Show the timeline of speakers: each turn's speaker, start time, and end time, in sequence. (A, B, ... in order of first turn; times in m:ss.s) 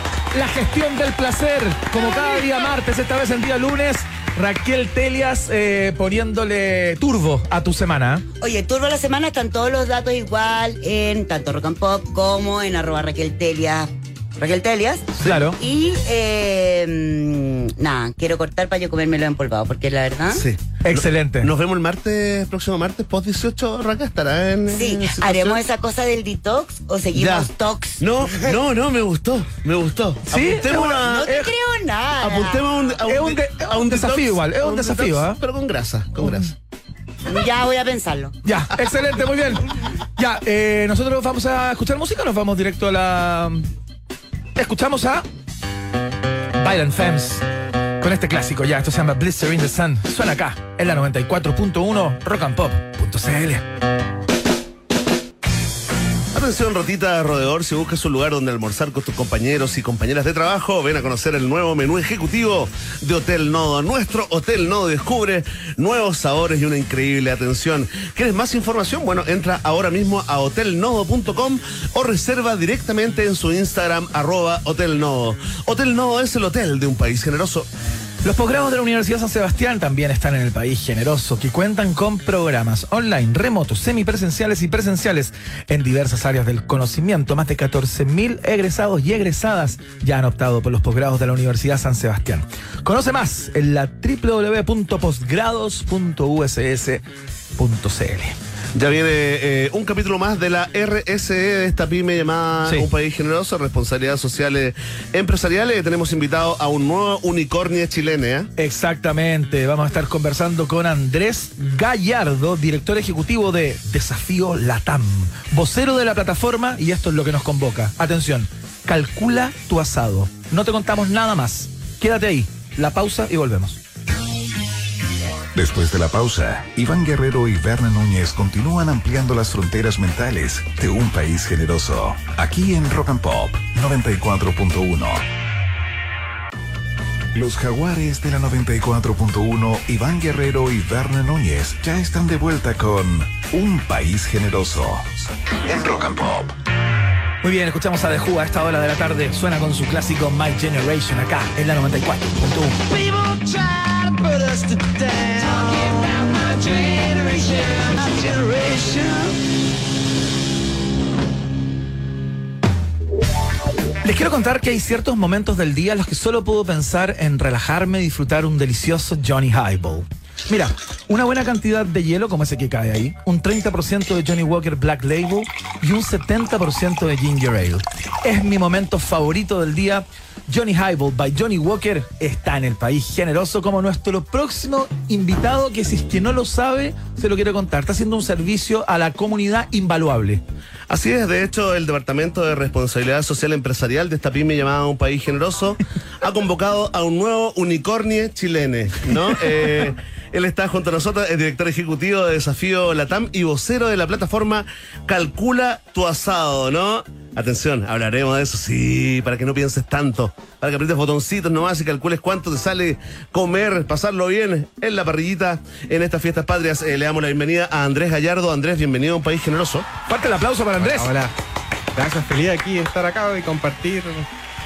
0:00.2-0:08.2 A
0:08.4-0:20.4 B
0:15.2-0:15.6 A
0:20.3-0:25.6 C
0:20.8-0:21.5 A
0:24.7-0:28.5 B
0:27.1-0:31.4 C
0:30.3-0:31.5 A
0:31.0-0:32.7 B
0:32.2-0:36.5 C
0:33.1-0:35.4 A
0:37.3-0:38.4 B
0:38.4-0:43.7 A
0:44.6-0:45.2 A
0:46.6-0:47.4 A
0:48.0-0:53.6 A
0:56.3-1:17.7 C
1:18.2-1:37.0 A
1:37.6-1:38.4 A
1:38.8-1:48.5 C
1:48.6-2:03.8 A
2:05.5-2:15.2 D
2:17.3-2:26.6 D
2:27.4-2:32.8 A
2:32.8-2:39.4 E
2:44.0-3:10.4 A
3:10.9-3:39.9 C
3:40.1-3:41.1 A
3:40.8-3:41.3 F
3:41.9-3:44.3 F